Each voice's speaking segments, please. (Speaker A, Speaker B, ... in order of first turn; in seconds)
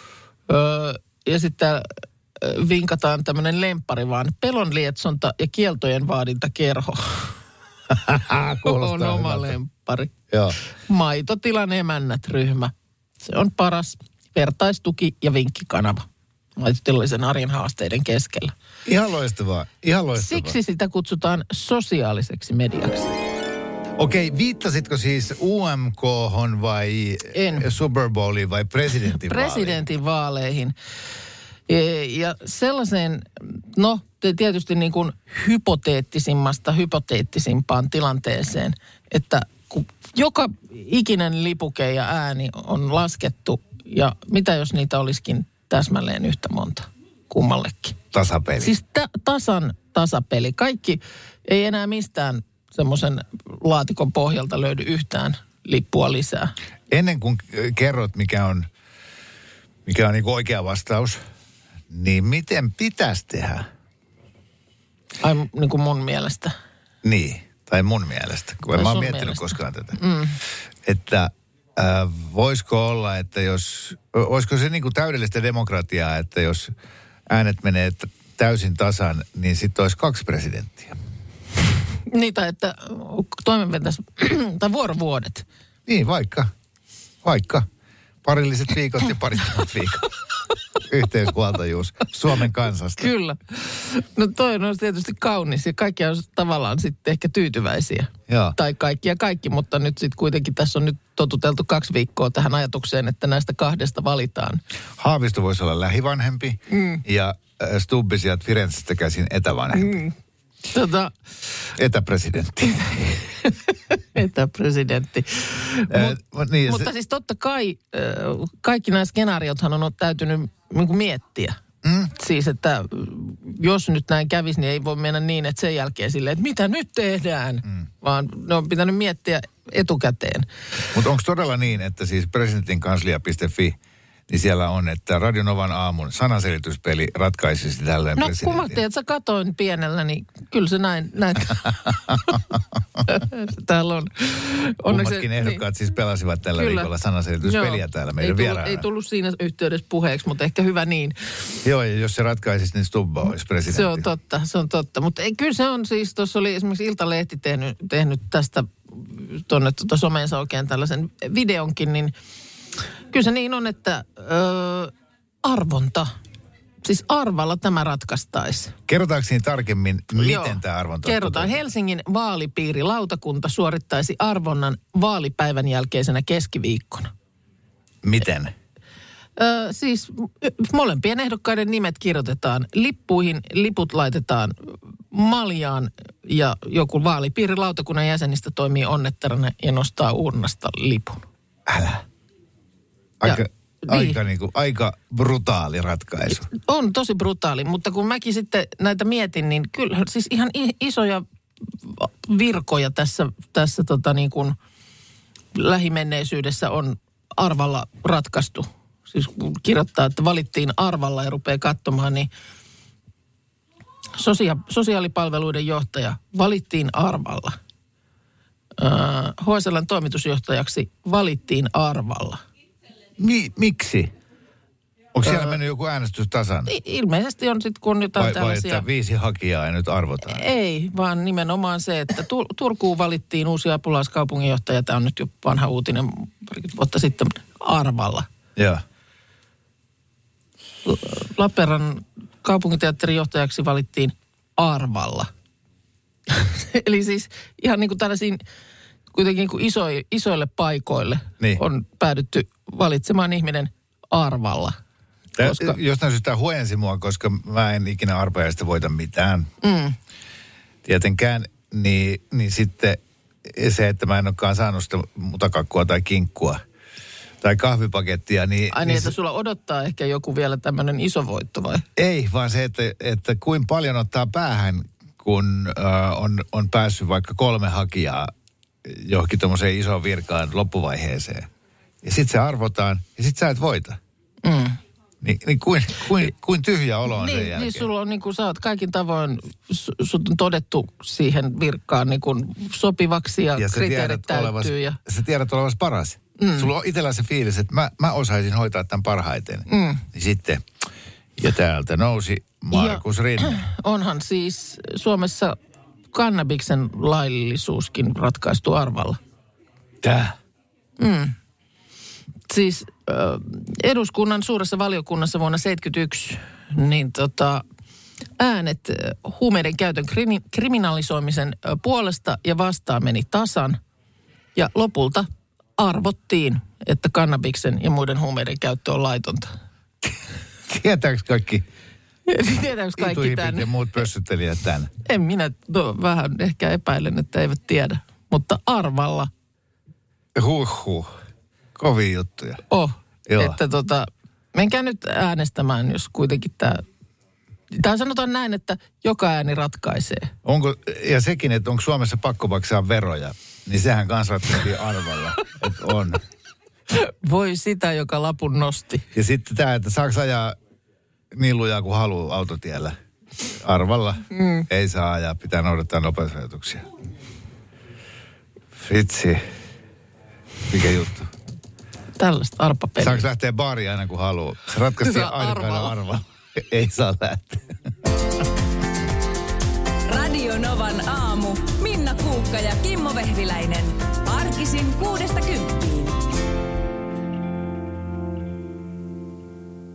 Speaker A: 0.5-7.3, 8.6-10.1, 10.9-16.1, 16.6-18.5, 20.1-23.1, 27.3-27.7, 29.2-30.7, 31.7-48.0, 48.6-56.5, 65.2-66.5, 68.7-70.4, 82.1-85.5, 93.0-104.6, 106.7-107.0, 109.7-110.1, 110.7-111.2, 112.6-121.6, 122.1-130.5, 138.2-142.4, 143.1-145.6, 146.6-146.9, 147.4-151.3, 153.7-162.1, 163.1-164.9, 165.4-166.1, 166.8-168.7, 170.2-177.1, 179.4-191.2, 193.2-194.2, 196.5-204.6, 205.6-212.3, 214.2-217.6, 218.8-222.4, 225.2-225.6, 226.7-228.8, 230.2-238.3, 240.8-245.3, 246.3-248.4, 249.1-254.8, 255.4-255.8, 259.6-260.0, 268.7-271.9, 284.4-284.8, 287.1-295.0, 296.4-296.7, 299.7-300.1, 302.7-305.6, 306.1-309.2, 311.0-311.4, 312.5-317.6, 318.4-323.8, 324.6-325.3, 325.8-329.5, 332.3-333.7, 335.1-339.3, 342.7-346.8, 347.7-350.3, 356.9-359.1, 364.3-364.7, 372.2-373.2, 375.0-375.9
Speaker B: 7.9-9.6, 10.3-10.6, 18.9-20.6, 24.0-29.8, 48.1-48.7, 56.9-58.7, 59.9-61.2, 61.9-63.7, 67.0-70.0, 70.8-76.7, 77.3-81.0, 85.9-86.5, 87.2-87.7, 88.2-90.1, 90.8-93.1, 98.3-98.6, 105.0-110.0, 111.8-112.8, 115.9-116.9, 121.8-122.1, 130.9-133.8, 134.3-138.8, 142.1-142.4, 144.9-148.8, 151.6-154.1, 168.9-171.6, 178.0-178.5, 191.7-192.0, 193.2-196.5, 223.2-224.1, 225.2-226.7, 228.2-230.4, 238.6-238.8, 255.4-259.5, 260.9-266.6, 267.4-269.1, 272.0-278.3, 278.8-281.5, 282.0-284.0, 285.2-287.9, 293.6-300.6, 301.4-303.6, 310.0-310.4, 330.7-331.6, 332.9-334.9, 340.4-341.1, 341.8-342.6, 343.3-343.6, 350.4-356.2, 359.1-360.6, 361.3-363.0, 363.5-366.9, 368.8-369.4, 370.7-371.3, 373.0-377.7
Speaker C: 380.1-386.2